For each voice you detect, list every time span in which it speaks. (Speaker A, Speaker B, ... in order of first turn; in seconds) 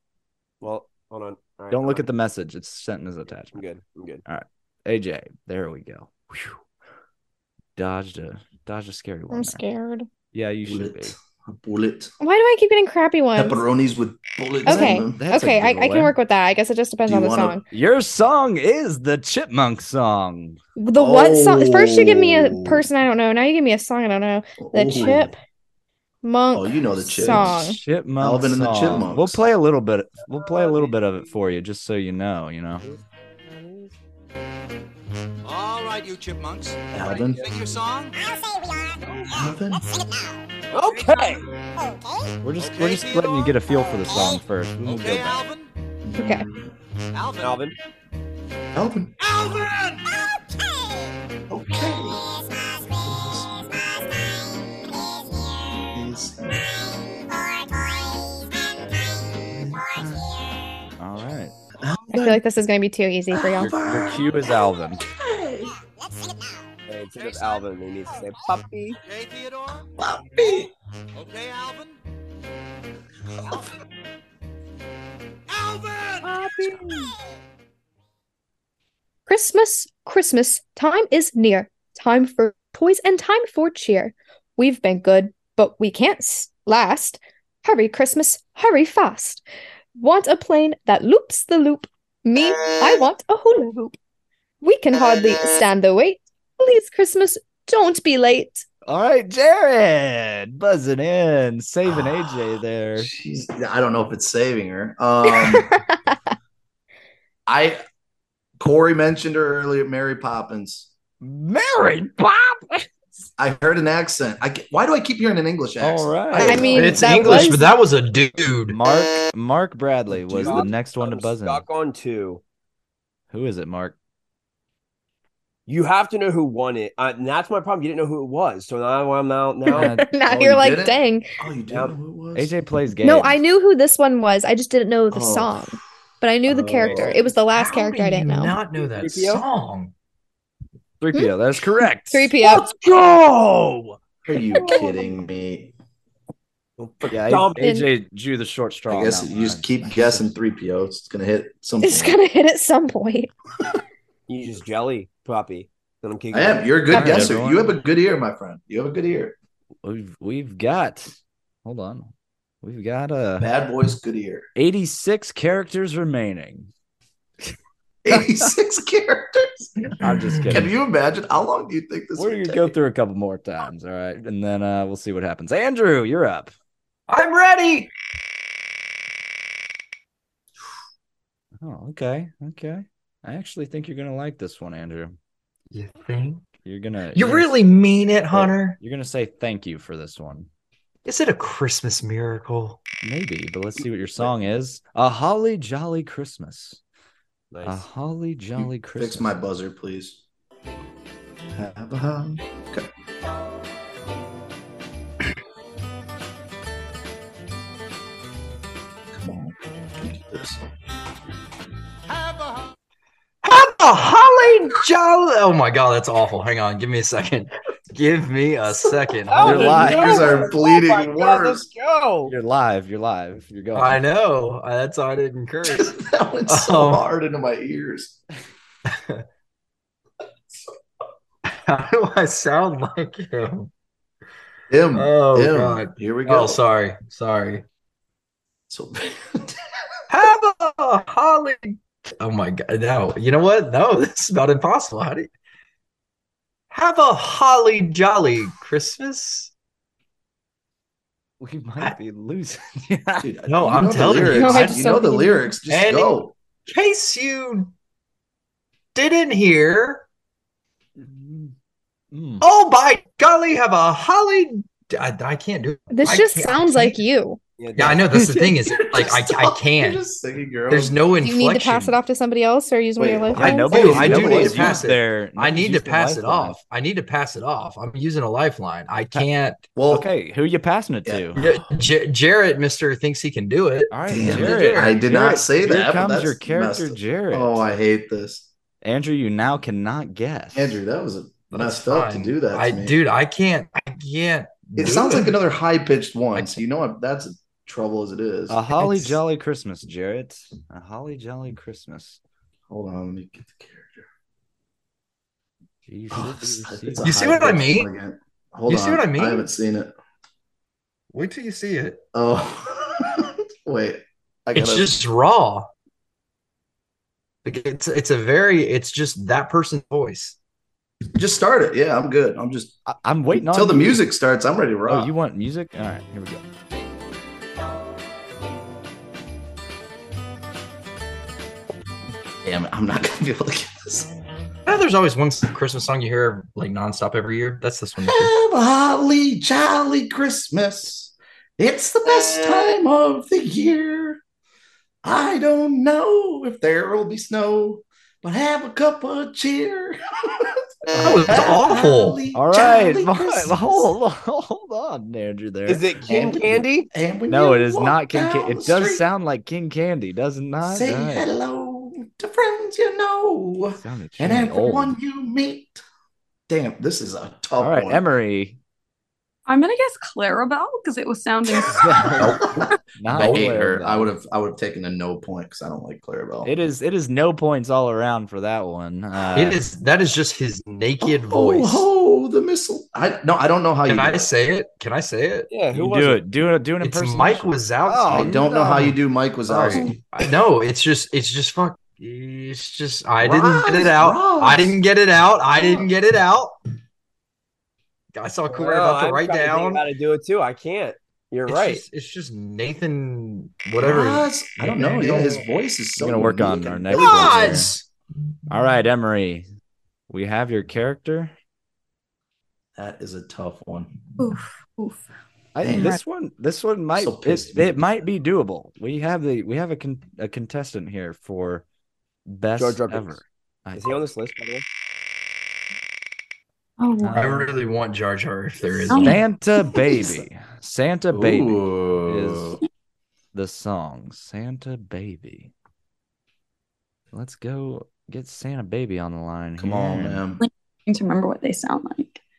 Speaker A: 0.6-2.0, 3.5-4.2, 30.6-30.9, 32.8-33.9, 37.0-37.5, 39.0-39.3, 40.7-41.5, 47.4-47.7, 66.9-69.0, 76.2-77.1, 120.3-122.4, 125.7-129.9, 131.7-131.9, 136.8-137.3, 138.8-139.4, 142.4-143.9, 146.8-147.6, 154.3-157.3, 197.5-197.8, 219.3-222.3, 267.6-268.0, 355.7-356.9, 385.5-386.2, 398.5-401.8, 422.6-423.2, 423.7-424.6
Speaker B: 1.7-3.6, 4.2-6.6, 7.8-9.6, 10.3-11.1, 14.7-16.1, 17.7-20.6, 27.2-32.9, 42.4-45.4, 61.0-61.5, 63.6-65.0, 98.8-103.1, 111.2-112.9, 115.8-117.4, 118.7-121.6, 123.3-124.0, 129.7-130.1, 132.3-133.4, 141.0-142.3, 147.1-150.3, 156.9-157.8, 159.8-162.1, 162.6-163.5, 164.6-166.7, 168.1-168.5, 170.0-170.7, 172.2-176.5, 181.6-185.2, 186.6-187.5, 188.3-190.5, 193.0-196.8, 197.6-199.4, 219.4-220.3, 222.2-224.0, 251.4-253.3, 261.0-261.5, 262.1-262.4, 268.1-268.7, 273.3-276.6, 279.9-281.4, 283.9-287.6, 288.8-290.8, 298.5-302.2, 305.9-307.6, 322.9-324.0, 324.9-326.4, 350.9-351.4, 352.3-355.8, 357.3-361.3, 363.7-364.9, 367.6-368.6, 371.7-374.1, 376.4-379.6, 385.7-388.9, 406.0-407.7, 408.5-409.4, 410.1-411.3, 415.5-421.6, 422.3-424.0, 427.0-427.5, 428.9-432.6, 433.3-435.5, 437.1-440.2
Speaker C: 9.3-10.1, 12.2-13.6, 14.6-17.6, 20.8-25.4, 26.2-27.8, 46.1-46.5, 62.1-63.8, 79.3-89.4, 90.0-94.0, 94.6-98.6, 105.3-106.2, 116.4-117.7, 129.7-131.3, 133.0-138.6, 142.1-142.7, 144.5-144.9, 147.6-147.9, 151.8-153.3, 254.3-255.5, 265.9-267.4, 271.2-273.9
Speaker D: 10.7-12.1, 13.3-15.2, 17.1-17.6, 20.9-22.9, 24.6-25.3, 26.5-27.6, 28.2-29.4, 36.9-37.4, 39.3-39.9, 46.0-46.7, 48.7-49.3, 51.5-52.2, 52.9-54.0, 55.9-56.8, 59.4-60.2, 61.8-62.4, 63.3-64.5, 65.0-65.8, 70.0-70.7, 101.9-102.3, 103.0-105.7, 107.5-107.8, 108.6-110.9, 113.4-117.5, 120.3-120.7, 130.2-132.5, 135.1-135.8, 136.5-137.2, 144.2-145.7, 148.9-152.2, 156.3-159.3, 163.4-164.5, 168.0-172.7, 198.6-200.2, 201.5-202.9, 209.1-210.6, 218.9-221.7, 225.6-228.2, 234.7-236.6, 238.7-239.6, 253.2-256.3, 268.8-271.0, 273.0-274.9, 279.7-280.1, 281.1-281.6, 284.1-288.5, 290.5-292.9, 294.8-298.6, 302.7-304.1, 306.1-309.9, 312.1-314.9, 321.1-322.8, 323.3-325.1, 332.4-334.1, 338.0-344.2, 345.0-353.9, 356.1-359.1, 360.6-365.8, 366.5-368.0, 372.2-376.5, 381.0-384.3, 388.1-390.0, 393.2-394.8, 395.6-395.9, 403.8-407.7, 412.8-413.9, 415.6-416.0, 416.9-417.8, 431.1-432.5, 439.6-440.4
Speaker E: 35.4-38.2, 42.6-45.7, 47.1-47.6, 49.2-50.0, 69.0-69.9, 71.2-72.0, 75.5-76.4
Speaker F: 116.7-118.8, 137.5-139.9, 177.1-177.9, 185.7-186.4, 187.1-188.8, 191.0-192.8, 213.4-219.9, 223.7-226.0, 226.5-227.0, 228.9-229.2, 231.4-233.7, 234.9-237.7, 240.1-245.3, 246.7-249.5, 253.5-255.0, 255.7-257.7, 258.9-260.0, 262.4-267.0, 267.8-270.0, 270.7-271.9, 273.4-279.6, 281.4-285.0, 291.5-295.4, 298.8-299.2, 307.0-307.9, 308.7-309.4, 311.1-312.0, 314.5-315.7, 317.4-320.4, 334.6-338.3, 351.0-352.2, 379.3-381.9, 383.9-385.5, 386.8-388.9, 389.5-396.6, 398.1-399.8, 401.5-405.4, 406.9-407.9, 427.1-429.2
Speaker G: 369.4-372.8, 414.2-415.1, 415.7-416.0, 426.8-427.2, 428.8-429.2, 429.7-430.1, 440.4-442.2